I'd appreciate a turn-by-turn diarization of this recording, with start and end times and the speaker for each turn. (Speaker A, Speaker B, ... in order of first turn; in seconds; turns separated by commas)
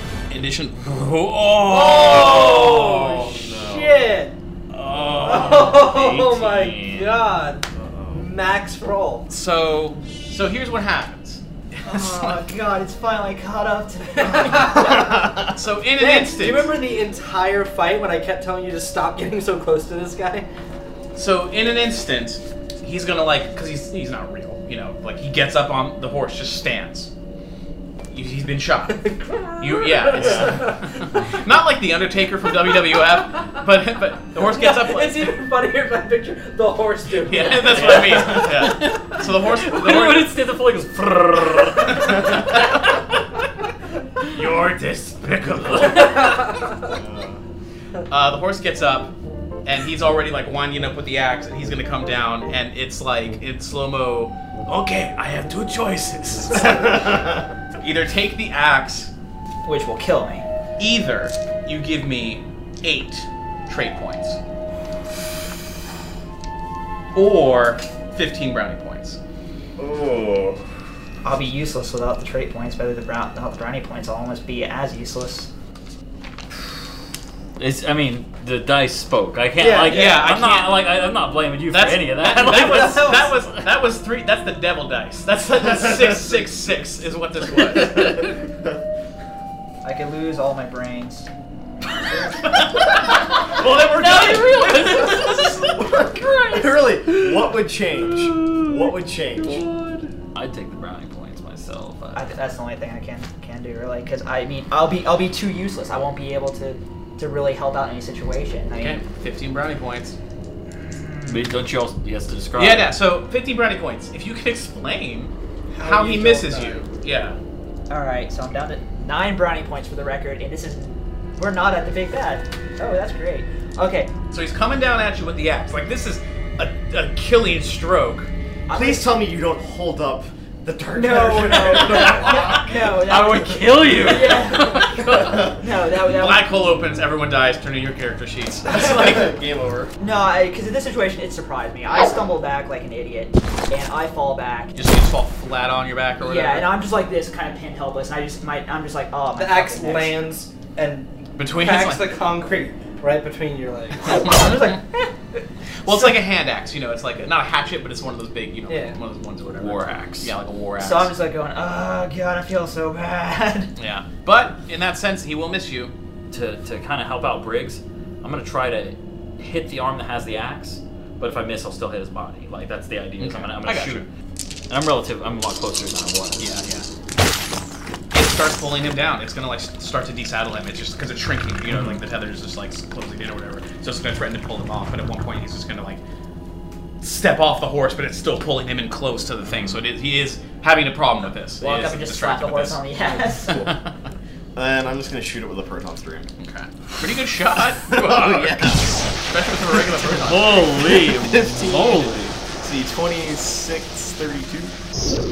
Speaker A: 0.3-3.1, Speaker B: 1.6-4.3, Speaker C: 2.1-4.1, Speaker A: 4.7-5.9, Speaker D: 5.2-7.2, Speaker B: 5.2-9.3, Speaker C: 7.7-8.3, Speaker A: 9.3-12.4, Speaker E: 11.8-14.9, Speaker B: 14.2-15.2, Speaker A: 15.4-16.7, Speaker B: 15.9-20.5, Speaker A: 21.1-27.1, Speaker A: 28.1-35.3, Speaker B: 28.9-30.8, Speaker C: 30.2-30.6, Speaker B: 34.3-38.5, Speaker A: 37.1-40.3, Speaker C: 37.8-38.4, Speaker D: 38.3-42.5, Speaker A: 41.8-42.9, Speaker A: 44.3-46.3, Speaker D: 45.6-46.3, Speaker B: 46.0-46.9, Speaker C: 47.0-47.4, Speaker A: 48.1-49.1, Speaker A: 49.6-59.1, Speaker E: 59.6-60.5, Speaker A: 60.8-64.4, Speaker A: 67.1-69.2, Speaker C: 69.8-70.6, Speaker E: 71.2-75.5, Speaker D: 77.6-83.3, Speaker B: 79.6-80.2, Speaker A: 79.9-80.9, Speaker A: 81.7-88.3, Speaker B: 82.3-83.3, Speaker E: 89.8-91.3, Speaker D: 92.1-97.5, Speaker A: 93.0-95.9, Speaker C: 95.7-99.7, Speaker D: 98.0-99.7, Speaker D: 100.3-102.3, Speaker E: 102.1-109.0, Speaker A: 108.8-110.2, Speaker E: 111.0-111.4, Speaker D: 111.2-112.9, Speaker A: 112.5-117.4, Speaker B: 115.7-116.9, Speaker E: 117.9-124.1, Speaker A: 124.3-128.3, Speaker E: 128.7-129.1, Speaker C: 128.7-132.8, Speaker E: 130.9-136.5, Speaker D: 133.1-135.5, Speaker A: 133.5-134.3, Speaker A: 136.0-139.3, Speaker C: 138.7-139.9, Speaker E: 140.0-144.7, Speaker A: 144.7-146.7, Speaker E: 146.2-150.2, Speaker B: 149.3-154.8, Speaker A: 151.4-152.2, Speaker A: 154.1-154.8, Speaker A: 155.8-161.1, Speaker B: 158.7-159.0, Speaker D: 159.6-160.3, Speaker E: 160.8-163.7, Speaker A: 163.8-165.9, Speaker D: 166.3-174.1, Speaker A: 173.2-174.1, Speaker D: 174.7-176.5, Speaker A: 176.4-176.9, Speaker A: 178.1-186.0, Speaker D: 181.7-182.0, Speaker A: 187.0-192.8, Speaker E: 191.6-193.6, Speaker A: 193.5-193.8, Speaker C: 194.5-196.3, Speaker A: 196.4-200.8, Speaker C: 197.9-199.0, Speaker D: 200.0-202.3, Speaker C: 200.9-204.7